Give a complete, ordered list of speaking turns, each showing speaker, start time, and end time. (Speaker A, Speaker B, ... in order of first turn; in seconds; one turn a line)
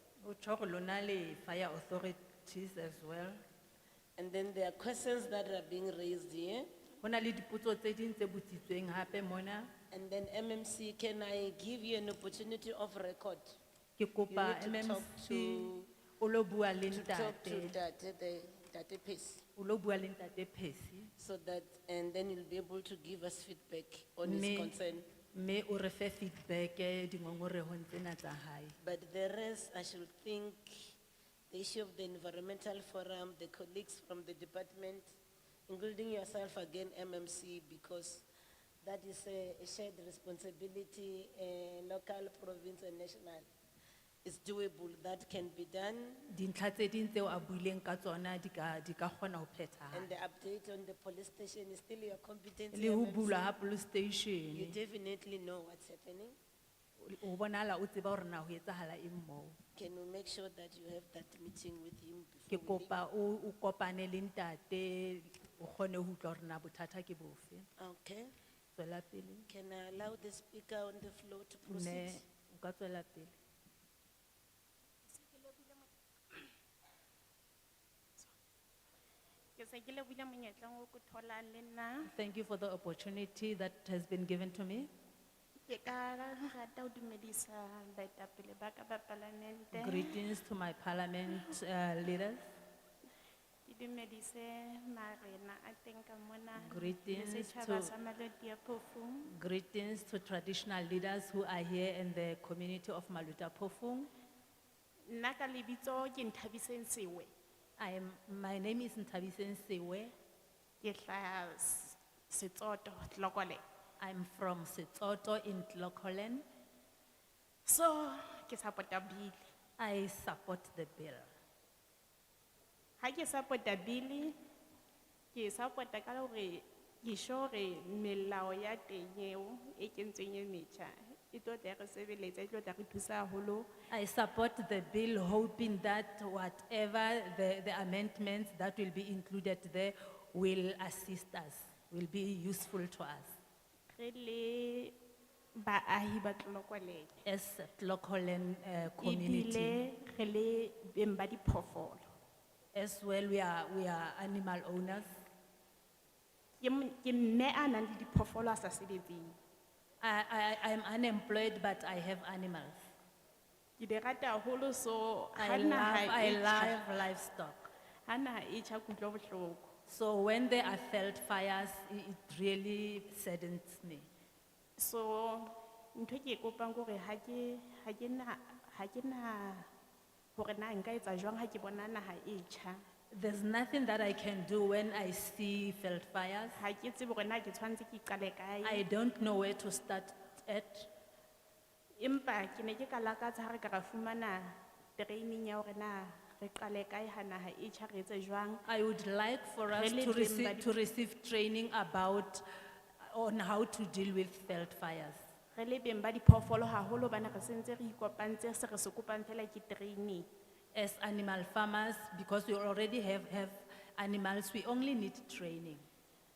Speaker A: 0.2-3.4
Speaker B: 4.2-6.7
Speaker A: 7.0-9.7
Speaker B: 9.9-13.6
Speaker A: 14.0-17.8
Speaker B: 14.3-15.9
Speaker B: 16.9-19.4
Speaker A: 19.6-21.1
Speaker B: 21.2-25.1
Speaker A: 24.2-24.7
Speaker A: 25.3-28.8
Speaker B: 28.8-30.9
Speaker B: 31.5-35.2
Speaker B: 35.7-38.2
Speaker B: 38.8-43.5
Speaker B: 44.2-46.2
Speaker A: 46.3-50.1
Speaker B: 49.9-53.5
Speaker A: 52.7-54.8
Speaker B: 54.5-56.4
Speaker A: 57.0-59.6
Speaker B: 59.8-62.9
Speaker A: 62.5-67.7
Speaker B: 67.8-68.3
Speaker A: 68.8-69.5
Speaker B: 69.5-72.2
Speaker A: 71.7-73.3
Speaker C: 75.1-76.5
Speaker C: 79.6-82.1
Speaker A: 82.0-84.9
Speaker C: 85.7-90.2
Speaker A: 89.7-92.4
Speaker C: 93.7-99.3
Speaker A: 96.6-97.9
Speaker A: 99.2-104.1
Speaker C: 105.1-107.3
Speaker A: 107.8-110.1
Speaker C: 110.8-113.6
Speaker A: 114.0-116.5
Speaker C: 117.7-119.5
Speaker A: 119.8-121.3
Speaker C: 123.0-124.3
Speaker C: 125.3-133.7
Speaker A: 133.9-143.3
Speaker C: 143.9-144.9
Speaker C: 145.6-147.1
Speaker A: 147.2-149.8
Speaker C: 149.0-152.1
Speaker A: 152.7-155.1
Speaker C: 156.6-159.3
Speaker A: 160.0-162.8
Speaker C: 163.8-166.8
Speaker A: 165.4-167.7
Speaker C: 168.1-169.7
Speaker A: 169.9-174.1
Speaker C: 174.8-179.7
Speaker C: 180.4-182.8
Speaker A: 183.1-186.6
Speaker C: 186.6-188.8
Speaker A: 188.6-190.9
Speaker C: 192.0-198.6
Speaker A: 198.7-202.4
Speaker C: 199.7-200.7
Speaker A: 203.0-205.2
Speaker C: 205.6-210.3
Speaker A: 210.7-215.8